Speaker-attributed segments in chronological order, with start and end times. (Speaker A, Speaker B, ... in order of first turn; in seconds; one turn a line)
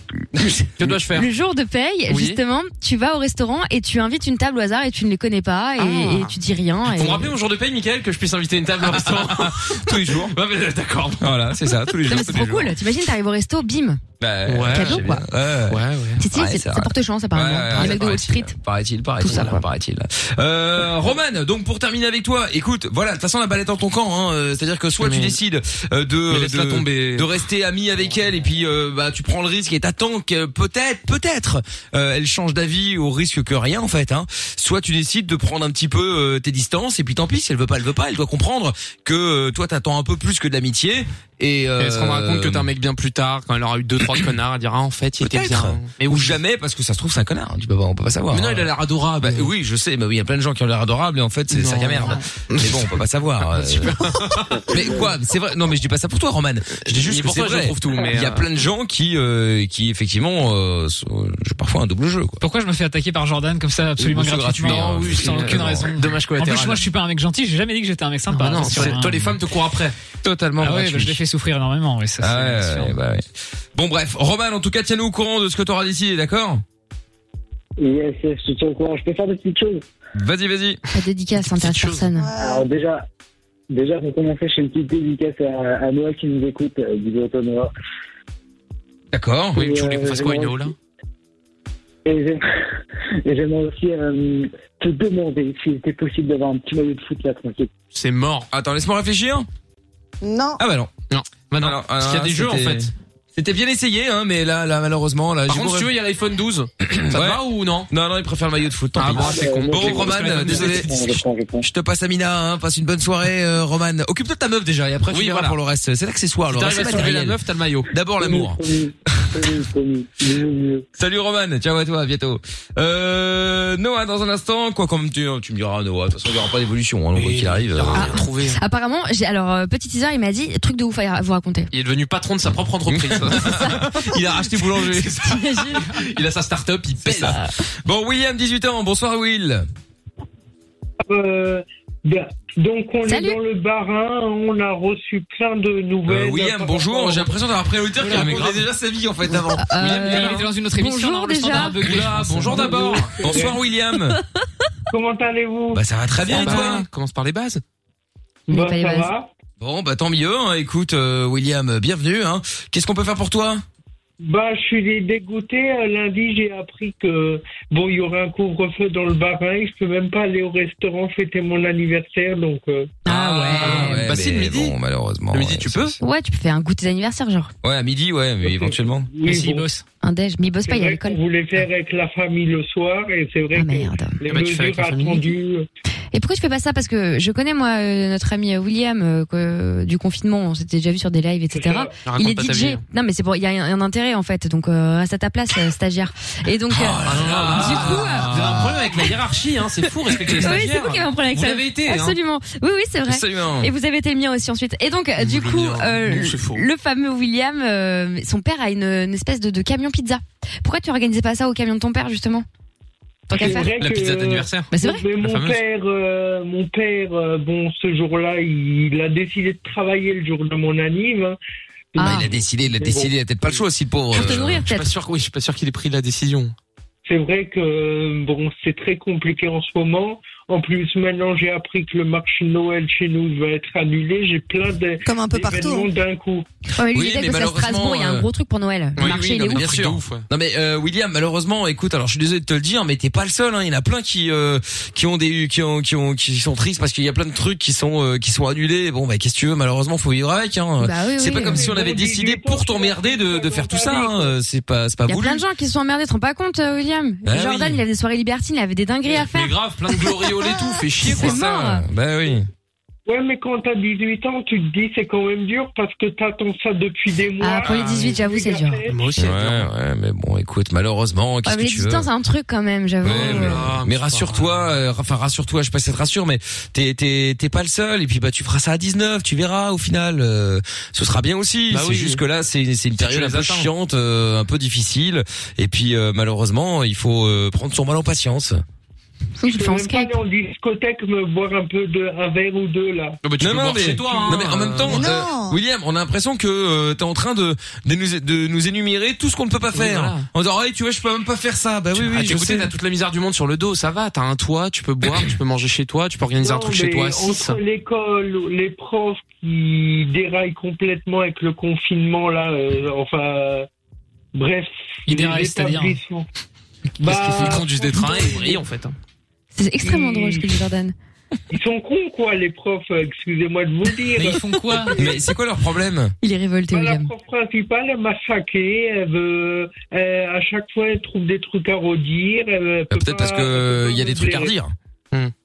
Speaker A: 0.8-1.3
Speaker B: 1.1-7.3
Speaker A: 2.1-2.4
Speaker A: 5.8-6.4
Speaker A: 6.9-11.4
Speaker C: 9.0-10.3
Speaker C: 11.2-12.7
Speaker B: 12.1-14.0
Speaker C: 14.2-42.7
Speaker A: 14.5-15.1
Speaker B: 14.7-15.2
Speaker A: 15.7-16.2
Speaker B: 16.2-18.6
Speaker B: 19.2-19.6
Speaker A: 25.0-25.4
Speaker A: 26.3-27.3
Speaker A: 41.8-46.4
Speaker C: 45.2-54.0
Speaker A: 48.3-49.5
Speaker A: 51.5-54.8
Speaker C: 54.7-62.4
Speaker A: 56.9-58.5
Speaker D: 62.4-69.3
Speaker C: 64.0-65.9
Speaker A: 64.6-66.9
Speaker A: 68.3-70.0
Speaker C: 70.2-71.2
Speaker D: 70.6-73.0
Speaker C: 72.2-76.6
Speaker E: 77.8-79.8
Speaker C: 80.1-80.8
Speaker B: 80.9-82.3
Speaker A: 81.4-82.1
Speaker F: 82.2-82.6
Speaker E: 82.3-83.0
Speaker E: 83.7-87.7
Speaker C: 89.1-89.6
Speaker E: 89.5-90.7
Speaker A: 89.5-90.7
Speaker E: 92.0-92.4
Speaker E: 93.2-97.7
Speaker A: 97.9-98.5
Speaker C: 98.5-99.5
Speaker F: 100.2-100.6
Speaker C: 100.6-100.9
Speaker A: 101.1-102.9
Speaker C: 101.6-105.9
Speaker A: 105.5-107.9
Speaker C: 106.8-111.0
Speaker A: 109.0-111.2
Speaker E: 109.1-111.7
Speaker C: 111.6-117.4
Speaker A: 115.1-115.6
Speaker A: 116.5-117.9
Speaker C: 117.9-118.6
Speaker E: 118.2-120.8
Speaker C: 121.0-128.2
Speaker A: 127.1-128.6
Speaker B: 128.0-131.7
Speaker A: 131.7-137.4
Speaker C: 132.9-133.8
Speaker B: 133.5-133.9
Speaker B: 135.2-135.8
Speaker C: 137.0-139.7
Speaker G: 141.1-147.3
Speaker B: 143.1-143.4
Speaker C: 146.1-149.7
Speaker A: 148.0-148.6
Speaker B: 149.6-151.8
Speaker A: 149.8-150.4
Speaker D: 149.8-153.0
Speaker A: 151.5-153.2
Speaker G: 152.4-153.6
Speaker C: 153.2-154.2
Speaker G: 154.9-155.8
Speaker C: 155.7-156.9
Speaker A: 156.3-157.6
Speaker B: 156.3-156.8
Speaker G: 158.5-159.3
Speaker B: 158.5-159.1
Speaker C: 159.6-163.6
Speaker G: 164.2-173.0
Speaker B: 173.0-174.0
Speaker C: 173.1-175.9
Speaker A: 173.5-174.7
Speaker A: 175.3-176.0
Speaker B: 176.0-177.5
Speaker C: 177.6-179.1
Speaker G: 178.4-179.7
Speaker D: 179.2-179.8
Speaker B: 180.0-181.2
Speaker G: 180.6-185.7
Speaker B: 183.5-184.2
Speaker A: 184.2-185.3
Speaker B: 186.1-198.3
Speaker G: 191.5-191.9
Speaker A: 192.0-192.8
Speaker C: 196.7-198.9
Speaker A: 197.0-202.2
Speaker B: 200.3-212.4
Speaker C: 203.1-203.7
Speaker A: 205.2-206.6
Speaker B: 213.3-213.7
Speaker G: 213.3-221.4
Speaker A: 213.4-215.6
Speaker B: 214.7-215.0
Speaker G: 221.9-223.1
Speaker B: 221.9-222.3
Speaker C: 222.0-224.7
Speaker B: 224.1-224.9
Speaker A: 224.2-226.5
Speaker G: 227.1-236.4
Speaker F: 235.0-235.9
Speaker B: 236.8-239.7
Speaker C: 236.9-238.3
Speaker A: 239.0-240.2
Speaker C: 239.0-255.4
Speaker B: 250.8-251.6
Speaker G: 251.4-254.3
Speaker B: 255.1-261.8
Speaker C: 257.2-257.8
Speaker A: 259.1-261.4
Speaker C: 261.1-262.5
Speaker G: 263.1-269.1
Speaker B: 267.4-268.8
Speaker A: 267.7-268.1
Speaker A: 268.9-269.7
Speaker C: 269.1-272.1
Speaker B: 271.4-273.7
Speaker C: 273.0-288.6
Speaker A: 273.1-274.7
Speaker A: 281.7-282.2
Speaker A: 283.0-283.7
Speaker B: 289.4-290.1
Speaker G: 289.5-293.2
Speaker A: 293.2-295.1
Speaker C: 293.4-302.7
Speaker G: 294.1-294.3
Speaker F: 294.9-295.6
Speaker A: 299.7-300.3
Speaker A: 301.9-307.6
Speaker G: 306.4-313.7
Speaker G: 314.3-316.3
Speaker D: 315.1-316.0
Speaker G: 317.0-318.6
Speaker A: 317.0-318.9
Speaker B: 319.5-320.9
Speaker G: 319.8-320.5
Speaker G: 321.5-325.2
Speaker D: 324.1-324.9
Speaker C: 324.9-326.1
Speaker B: 326.2-327.1
Speaker G: 326.7-334.5
Speaker C: 332.9-334.7